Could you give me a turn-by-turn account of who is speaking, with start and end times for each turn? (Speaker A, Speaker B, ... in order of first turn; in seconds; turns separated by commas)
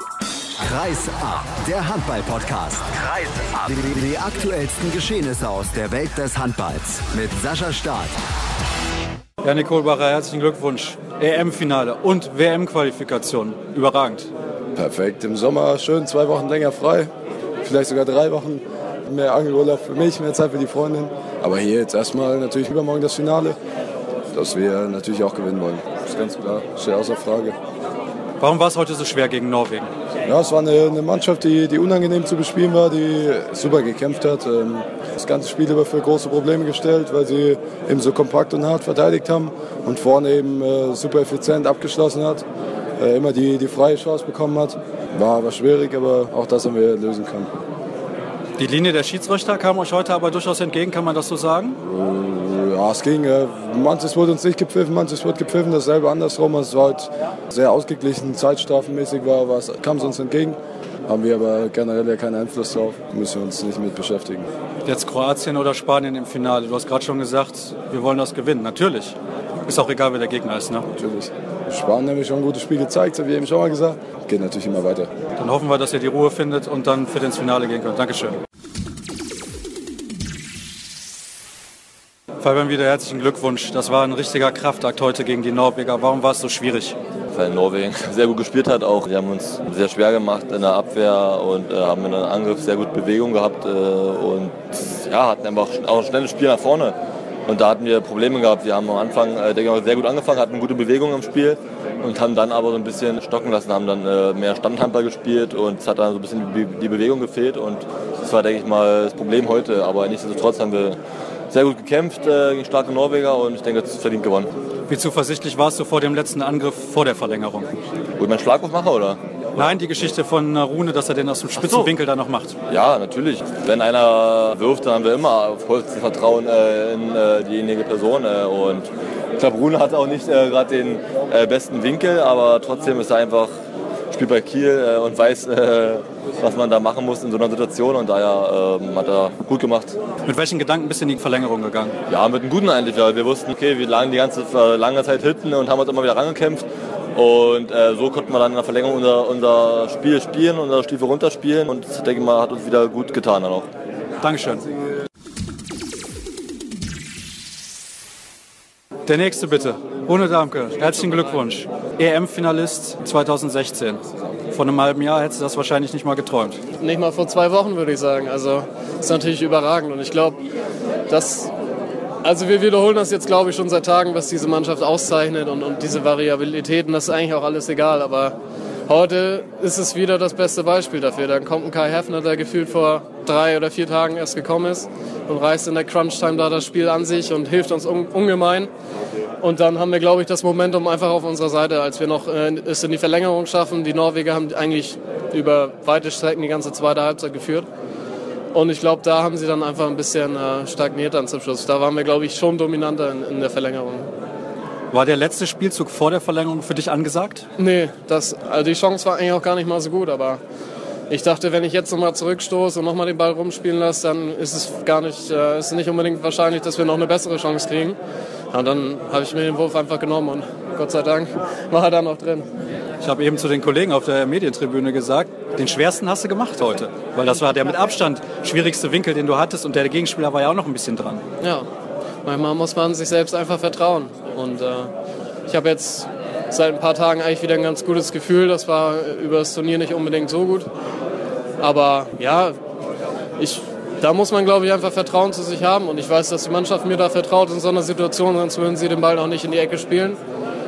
Speaker A: 0.6-8.2, Speaker B: 9.4-14.3, Speaker C: 14.8-17.1, Speaker C: 17.6-23.6, Speaker C: 24.3-27.6, Speaker B: 28.4-29.9, Speaker C: 30.2-42.4, Speaker C: 43.0-47.5, Speaker B: 48.6-51.8, Speaker C: 51.8-64.5, Speaker B: 64.8-70.9, Speaker C: 70.9-75.1, Speaker B: 75.4-78.4, Speaker B: 82.4-87.0, Speaker D: 87.3-97.0, Speaker D: 97.5-111.0, Speaker D: 111.5-114.5, Speaker B: 114.9-117.7, Speaker D: 118.2-119.2, Speaker B: 119.6-122.5, Speaker D: 121.6-121.9, Speaker D: 122.7-133.5, Speaker D: 134.1-139.9, Speaker B: 140.2-141.9, Speaker D: 142.1-153.7, Speaker B: 154.2-154.7, Speaker B: 159.1-166.6, Speaker E: 160.8-161.4, Speaker E: 166.8-170.4, Speaker E: 171.1-171.5, Speaker E: 172.2-178.3, Speaker E: 178.9-188.7, Speaker E: 189.4-197.7, Speaker E: 198.5-204.1, Speaker B: 204.9-207.4, Speaker E: 207.6-210.4, Speaker E: 211.1-218.0, Speaker E: 218.5-222.5, Speaker B: 223.0-231.2, Speaker E: 231.4-231.7, Speaker E: 232.2-234.9, Speaker E: 235.5-240.7, Speaker E: 241.6-242.6, Speaker E: 243.4-250.2